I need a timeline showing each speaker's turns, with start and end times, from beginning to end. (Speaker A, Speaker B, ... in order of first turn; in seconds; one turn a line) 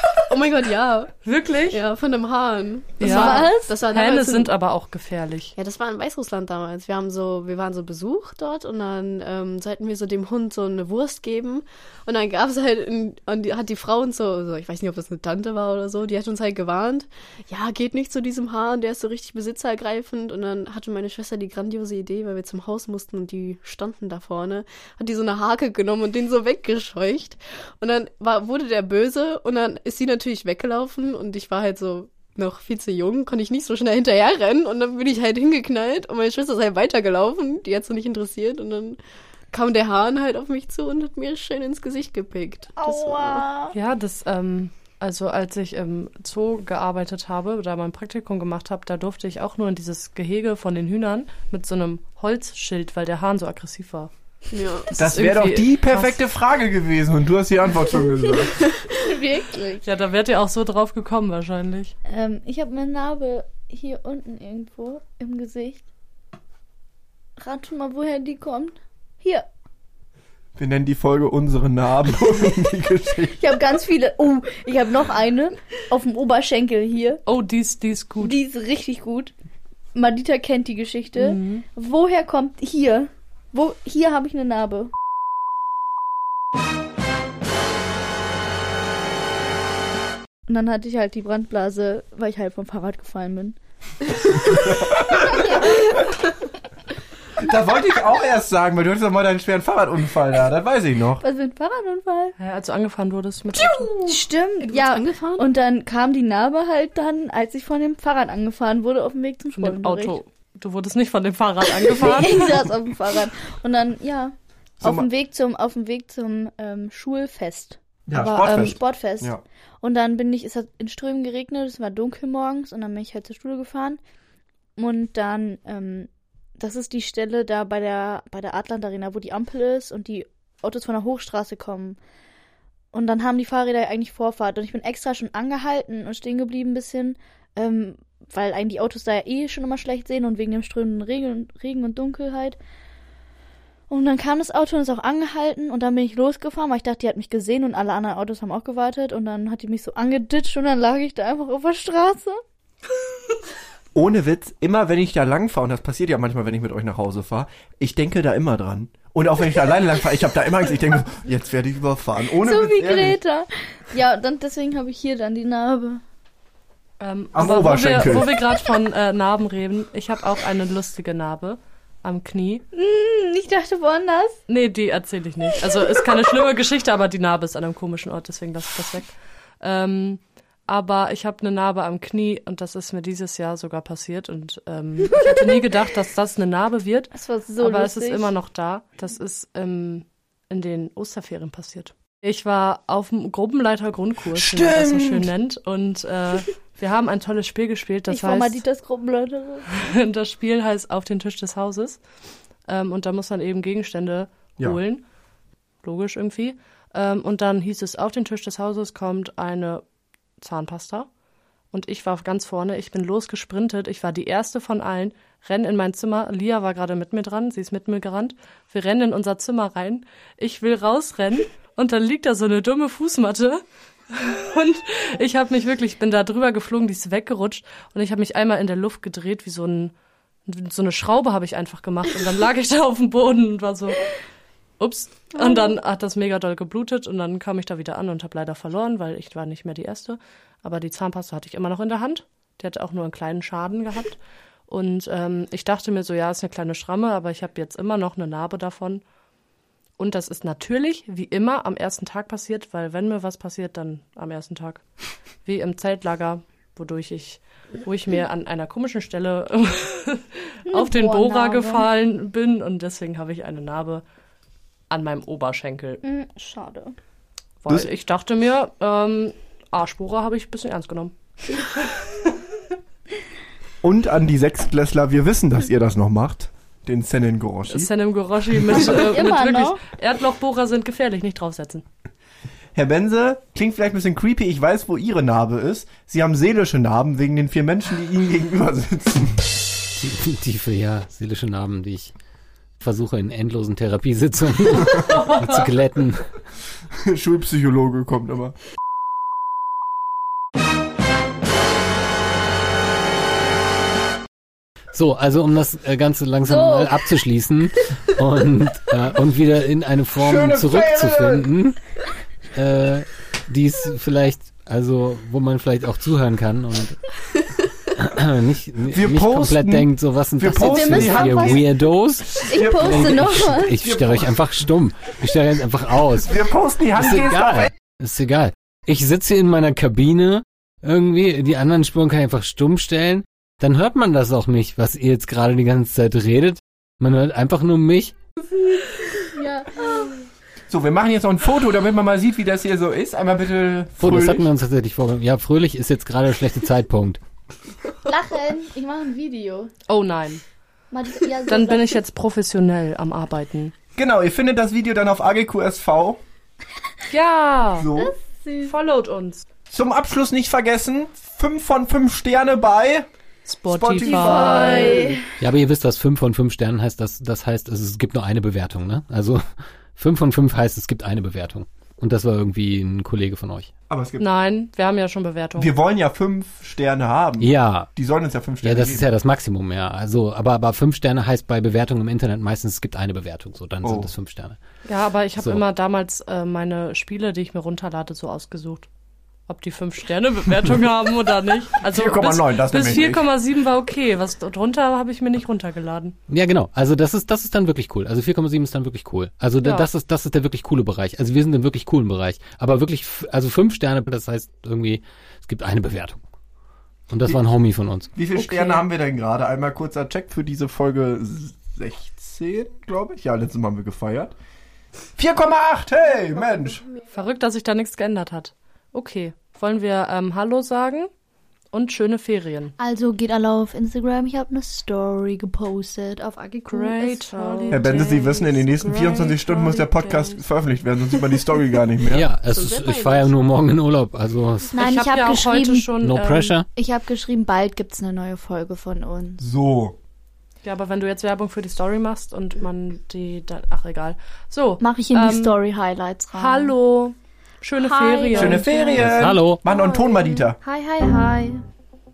Speaker A: 0.1-1.1
Speaker B: 1.2-1.8
Speaker A: 1.7-4.5
Speaker B: 3.0-5.5
Speaker C: 3.0-3.7
Speaker A: 5.5-39.0
Speaker A: 39.5-43.5
Speaker C: 42.8-43.8
Speaker B: 43.7-54.1
Speaker A: 54.5-54.9
Speaker B: 54.8-56.2
Speaker D: 55.0-58.6
Speaker C: 59.0-59.9
Speaker B: 59.8-61.9
Speaker C: 62.1-65.8
Speaker C: 67.4-69.5
Speaker D: 70.6-73.4
Speaker C: 73.3-77.2
Speaker B: 77.3-78.4
Speaker C: 78.2-79.3
Speaker C: 80.0-84.9
Speaker B: 81.2-81.6
Speaker C: 90.5-93.6
Speaker D: 94.4-95.9
Speaker D: 97.4-101.2
Speaker C: 101.2-102.3
Speaker B: 102.4-104.0
Speaker C: 104.0-110.2
Speaker A: 104.7-105.5
Speaker B: 109.6-112.6
Speaker C: 111.9-124.0
Speaker D: 114.8-115.1
Speaker D: 118.1-119.4
Speaker B: 118.2-118.8
Speaker C: 124.8-132.0
Speaker C: 132.9-142.6
Speaker C: 143.9-152.4
Speaker D: 153.9-163.2
Speaker C: 162.3-166.0
Speaker B: 167.0-172.6
Speaker D: 167.3-168.3
Speaker C: 172.7-174.4
Speaker B: 174.5-198.6
Speaker C: 187.1-188.3
Speaker D: 194.3-195.3
Speaker C: 198.1-199.7
Speaker B: 199.7-202.0
Speaker B: 202.7-205.0
Speaker B: 205.8-209.8
Speaker B: 210.4-211.1
Speaker B: 211.7-229.9
Speaker B: 230.5-234.1
Speaker B: 234.8-249.0
Speaker B: 250.0-254.8
Speaker B: 255.4-264.0
Speaker C: 260.7-261.9
Speaker B: 264.9-266.0
Speaker C: 266.0-266.9
Speaker B: 267.6-272.3
Speaker D: 273.8-277.9
Speaker B: 277.7-281.9
Speaker C: 278.9-279.8
Speaker D: 282.8-289.5
Speaker E: 290.0-292.1
Speaker E: 292.8-296.3
Speaker D: 297.0-298.6
Speaker E: 304.9-311.8
Speaker D: 310.2-311.5
Speaker E: 312.5-317.0
Speaker E: 318.0-326.4
Speaker D: 318.9-321.7
Speaker C: 320.6-321.6
Speaker C: 322.4-323.7
Speaker D: 322.5-324.4
Speaker D: 326.2-327.7
Speaker E: 327.0-338.1
Speaker C: 339.3-340.2
Speaker D: 340.7-344.5
Speaker E: 344.0-347.2
Speaker C: 348.0-349.7
Speaker B: 349.9-350.4
Speaker C: 350.9-352.0
Speaker B: 351.5-353.7
Speaker D: 353.9-356.2
Speaker B: 357.1-357.9
Speaker D: 357.8-358.1
Speaker C: 357.9-358.7
Speaker B: 358.6-359.5
Speaker D: 359.7-363.1
Speaker B: 363.5-365.0
Speaker D: 363.7-365.2
Speaker C: 364.0-365.2
Speaker E: 365.4-369.4
Speaker E: 369.9-373.7
Speaker D: 373.9-374.3
Speaker B: 374.2-375.7
Speaker D: 375.6-379.1
Speaker E: 377.4-377.9
Speaker E: 378.6-384.6
Speaker D: 383.8-384.1
Speaker B: 384.9-388.9
Speaker B: 389.5-396.2
Speaker D: 391.9-393.3
Speaker E: 396.3-406.2
Speaker B: 399.6-399.9
Speaker E: 407.1-408.1
Speaker D: 408.1-414.3
Speaker B: 408.4-408.8
Speaker D: 415.2-416.8
Speaker B: 417.1-421.1
Speaker B: 421.7-422.8
Speaker C: 422.8-430.4
Speaker B: 426.7-428.4
Speaker D: 427.7-432.3
Speaker E: 432.1-434.8
Speaker A: 432.4-433.4
Speaker C: 434.7-435.9
Speaker B: 434.8-436.6
Speaker E: 436.0-436.7
Speaker C: 436.8-439.4
Speaker D: 439.4-440.0
Speaker B: 440.6-445.6
Speaker C: 444.8-446.7
Speaker B: 446.3-448.7
Speaker C: 447.8-451.6
Speaker D: 448.4-450.6
Speaker E: 449.0-449.6